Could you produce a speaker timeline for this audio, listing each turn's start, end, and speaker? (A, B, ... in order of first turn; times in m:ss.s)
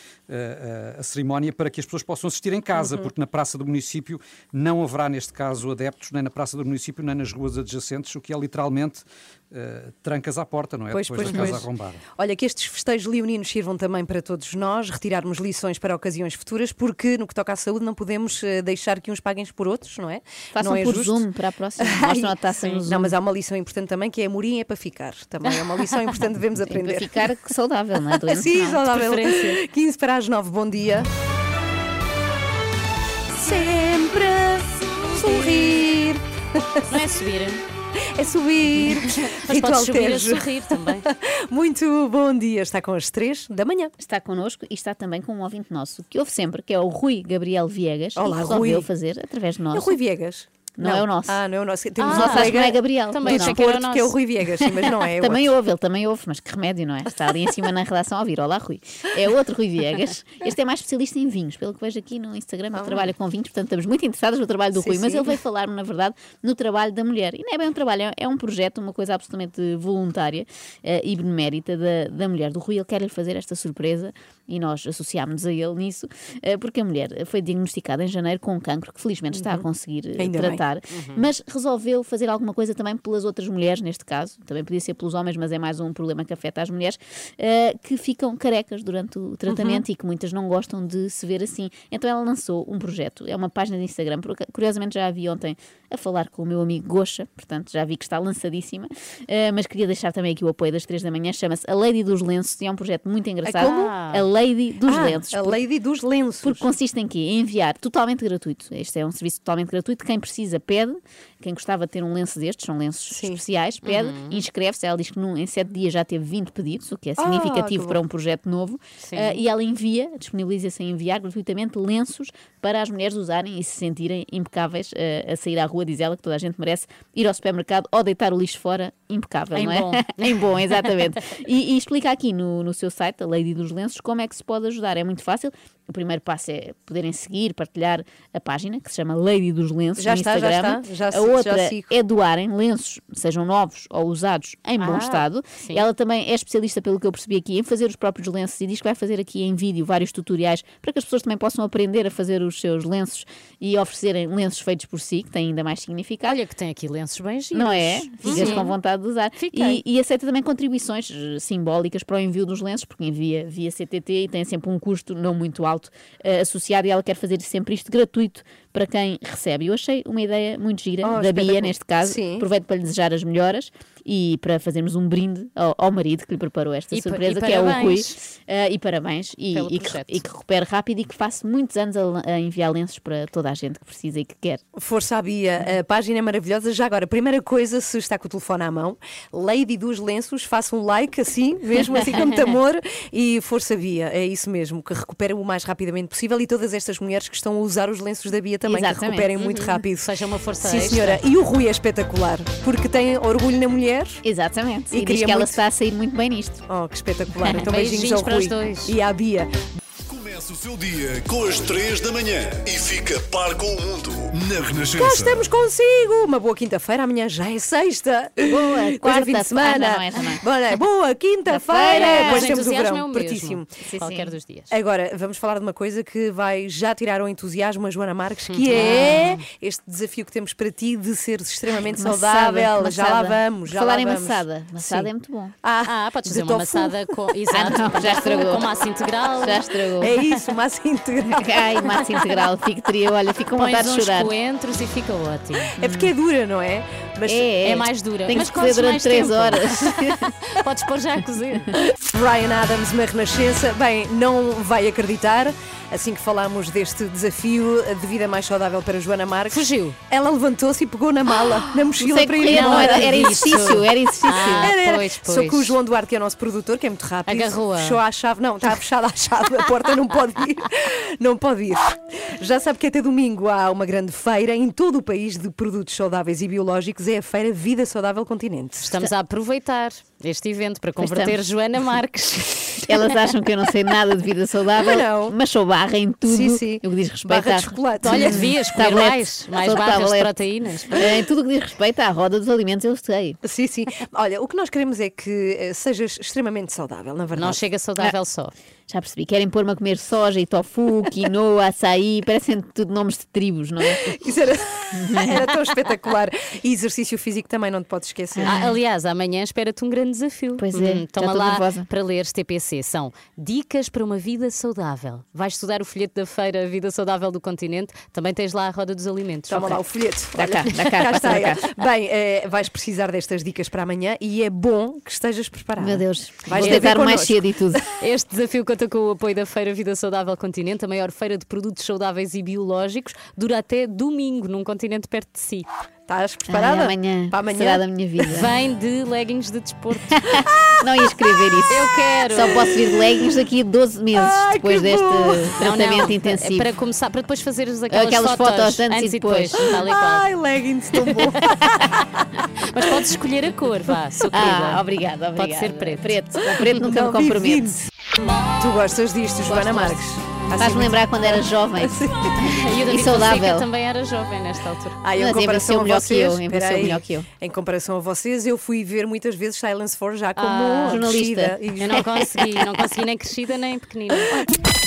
0:00.3-0:12.0 A
0:02.8-0:03.1 B
0:10.9-0:11.6 B
0:11.3-0:11.6 C
0:12.2-0:21.2 B
0:20.6-0:23.1 D
0:21.8-0:22.3 B
0:22.6-0:22.9 C
0:22.9-0:27.3 B
0:26.7-0:28.7 D
0:28.3-0:31.1 B
0:28.8-0:29.6 C
0:33.4-0:36.8 B
0:35.2-0:35.6 C
0:36.9-0:37.6 C
0:38.2-0:43.9 B
0:38.8-0:41.1 C
0:44.0-0:50.0 D
0:48.2-0:48.9 B
0:49.7-0:55.5 B
0:50.8-0:51.4 D
0:52.0-0:54.2 C
0:52.1-0:53.6 D
0:54.6-1:45.6 D
1:02.7-1:03.1 B
1:04.8-1:05.4 B
1:19.3-1:19.6 B
1:20.2-1:20.6 B
1:20.9-1:21.2 C
1:29.5-1:29.8 B
1:43.4-1:43.9 B
1:43.6-1:44.3 C
1:44.9-1:46.7 B
1:46.4-2:36.4 D
1:53.1-1:53.4 B
1:53.8-1:54.4 C
1:57.2-1:58.0 B
1:59.0-1:59.4 C
2:09.5-2:11.2 C
2:20.0-2:21.9 B
2:24.8-2:25.8 C
2:36.2-2:38.8 C
2:37.5-3:04.6 D
2:38.2-2:38.6 B
2:39.4-2:39.8 C
2:51.0-2:52.4 B
2:56.9-2:58.2 C
2:59.5-3:00.2 C
3:04.8-3:24.2 B
3:12.1-3:12.6 C
3:18.7-3:19.3 D
3:19.4-3:21.2 C
3:24.2-3:26.6 D
3:24.9-3:25.6 B
3:26.7-3:29.5 B
3:27.5-3:29.0 C
3:30.1-3:35.4 E
3:35.0-3:43.7 B
3:38.5-3:40.4 D
3:41.5-3:42.5 D
3:41.9-3:44.7 C
3:43.8-3:44.3 D
3:44.7-3:55.1 B
3:48.5-3:49.4 C
3:48.7-3:49.2 D
3:51.9-3:55.5 D
3:55.6-3:57.0 B
3:55.8-4:00.2 C
3:57.5-3:58.7 D
3:59.4-4:00.1 D
4:00.0-4:02.0 B
4:01.4-4:04.3 D
4:03.6-4:05.7 C
4:05.8-4:07.5 B
4:05.8-4:06.1 D
4:07.3-4:10.3 D
4:07.6-4:10.0 C
4:10.5-4:11.7 C
4:12.1-4:23.6 B
4:19.5-4:20.0 C
4:22.0-4:24.7 D
4:22.4-4:25.8 C
4:24.6-4:38.9 B
4:27.3-4:28.0 C
4:38.8-4:43.0 C
4:41.0-4:41.4 D
4:42.9-4:50.3 D
4:44.8-4:45.4 B
4:46.3-4:48.5 B
4:48.0-4:51.0 C
4:50.9-4:53.4 D
4:53.4-4:57.6 B
4:57.3-4:58.5 C
4:58.9-5:04.0 D
5:04.0-5:08.7 B
5:05.0-5:05.3 D
5:08.4-5:08.6 D
5:08.4-5:19.8 C
5:10.6-5:11.9 D
5:19.5-5:27.8 B
5:20.4-5:21.6 D
5:25.8-5:27.8 D
5:26.6-5:27.0 C
5:28.0-5:35.7 C
5:36.1-5:38.4 B
5:36.5-5:38.5 D
5:38.3-5:40.2 C
5:40.2-5:46.7 D
5:41.7-5:42.7 C
5:44.2-5:45.4 B
5:45.6-5:50.3 C
5:47.9-5:49.7 D
5:49.7-5:52.3 B
5:50.9-5:51.9 C
5:52.6-5:54.8 C
5:52.8-5:53.1 B
5:54.3-5:57.8 D
5:55.4-5:56.1 C
5:56.5-5:57.9 B
5:58.4-6:02.7 B
5:59.5-6:00.0 D
6:00.6-6:02.0 D
6:02.4-6:05.0 C
6:02.9-6:03.7 D
6:05.0-6:12.1 B
6:05.2-6:07.3 D
6:10.4-6:11.0 C
6:10.9-6:11.6 D
6:11.8-6:14.4 C